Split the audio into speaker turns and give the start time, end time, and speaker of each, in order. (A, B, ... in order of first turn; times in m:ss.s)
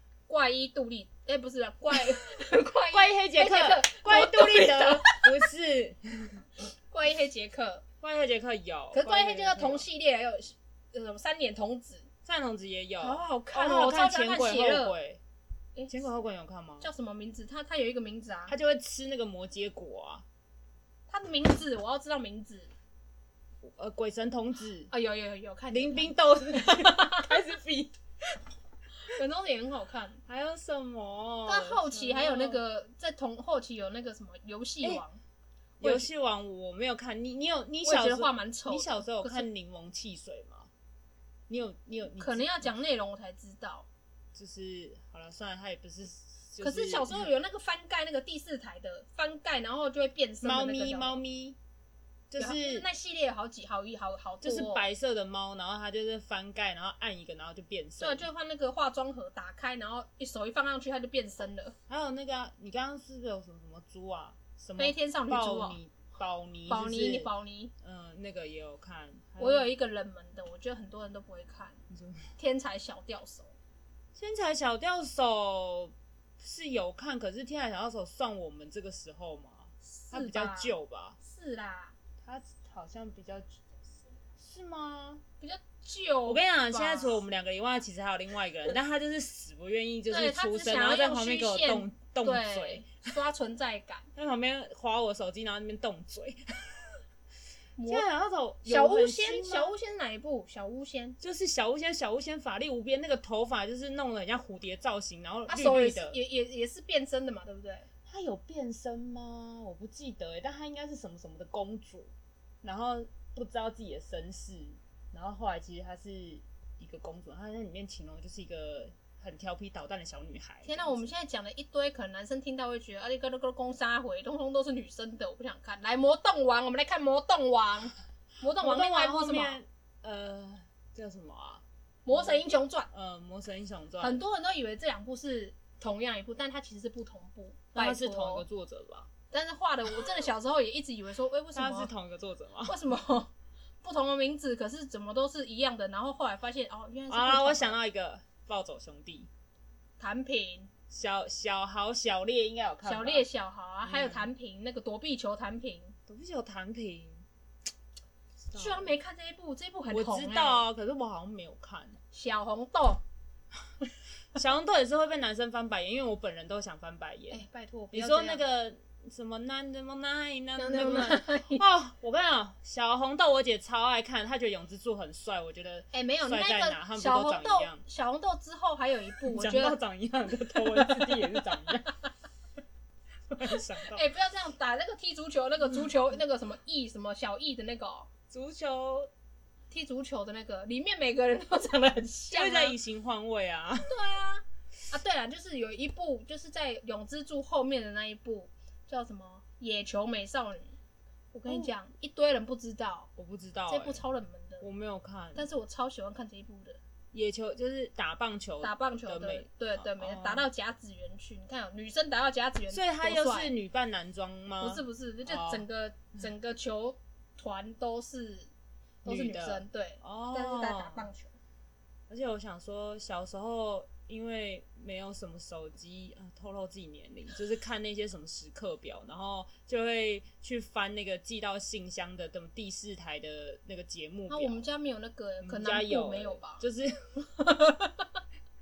0:00.3-0:05.3 A
0:02.9-0:06.4 B
0:06.9-0:07.8 A
0:08.0-0:09.8 B
0:08.9-0:12.1 A
0:12.2-0:15.2 B
0:13.0-0:15.0 A
0:15.9-0:16.9 B
0:16.8-0:18.5 A
0:18.5-0:20.2 B
0:21.1-0:22.7 A
0:23.6-0:24.9 B
0:24.9-0:27.3 A
0:25.7-0:28.0 B
0:29.0-0:30.2 A
0:30.3-0:32.6 B
0:31.5-0:35.2 A
0:35.8-0:36.1 A
0:35.8-0:40.7 B
0:37.8-0:39.5 A
0:41.5-0:42.7 B
0:42.2-0:43.9 A
0:44.4-0:47.2 B
0:46.6-0:51.2 A
0:50.4-0:51.6 B
0:52.3-0:52.9 B
0:52.4-0:54.8 A
0:54.4-0:58.3 B
0:58.0-1:01.8 A
1:01.9-1:09.7 B
1:04.8-1:05.8 A
1:06.7-1:07.7 A
1:09.4-1:11.8 A
1:11.9-1:12.3 B
1:12.4-1:13.5 A
1:14.2-1:21.2 B
1:19.8-1:22.0 A
1:22.2-1:23.6 B
1:24.3-1:25.2 B
1:25.4-1:27.2 A
1:26.3-1:33.0 B
1:30.1-1:34.1 A
1:34.2-1:37.0 B
1:37.8-1:38.1 A
1:37.9-1:39.7 B
1:38.6-1:41.2 A
1:41.2-1:46.2 B
1:45.5-1:47.9 A
1:48.1-1:52.1 B
1:52.6-2:01.1 B
2:00.7-2:09.6 A
2:08.6-2:14.2 B
2:12.0-2:12.9 A
2:14.0-2:18.4 A
2:17.8-2:19.1 B
2:19.3-2:21.9 A
2:21.6-2:22.8 B
2:22.7-2:23.3 A
2:23.8-2:27.8 A
2:27.1-2:29.3 B
2:30.0-2:30.7 A
2:30.9-2:33.3 B
2:32.8-2:36.0 A
2:33.8-2:34.3 B
2:36.1-2:37.2 B
2:38.5-2:38.9 B
2:38.6-2:40.7 A
2:39.9-2:42.0 B
2:42.1-2:43.0 A
2:44.4-2:57.8 B
2:47.3-2:48.4 A
2:50.6-2:51.6 A
2:55.9-2:59.8 A
2:59.2-3:01.9 B
3:00.3-3:02.0 A
3:03.3-3:04.0 B
3:03.9-3:08.1 A
3:08.3-3:09.1 B
3:09.7-3:12.8 A
3:12.3-3:14.0 B
3:13.8-3:20.8 A
3:21.3-3:23.1 A
3:23.2-3:24.0 B
3:23.7-3:24.6 A
3:24.6-3:25.5 B
3:25.4-3:26.8 A
3:27.1-3:30.5 B
3:28.6-3:33.5 A
3:32.7-3:35.7 B
3:34.6-3:38.5 A
3:39.0-3:41.3 A
3:39.0-3:41.1 B
3:42.1-3:54.6 B
3:54.3-3:56.6 A
3:55.4-3:57.1 B
3:57.2-3:58.1 A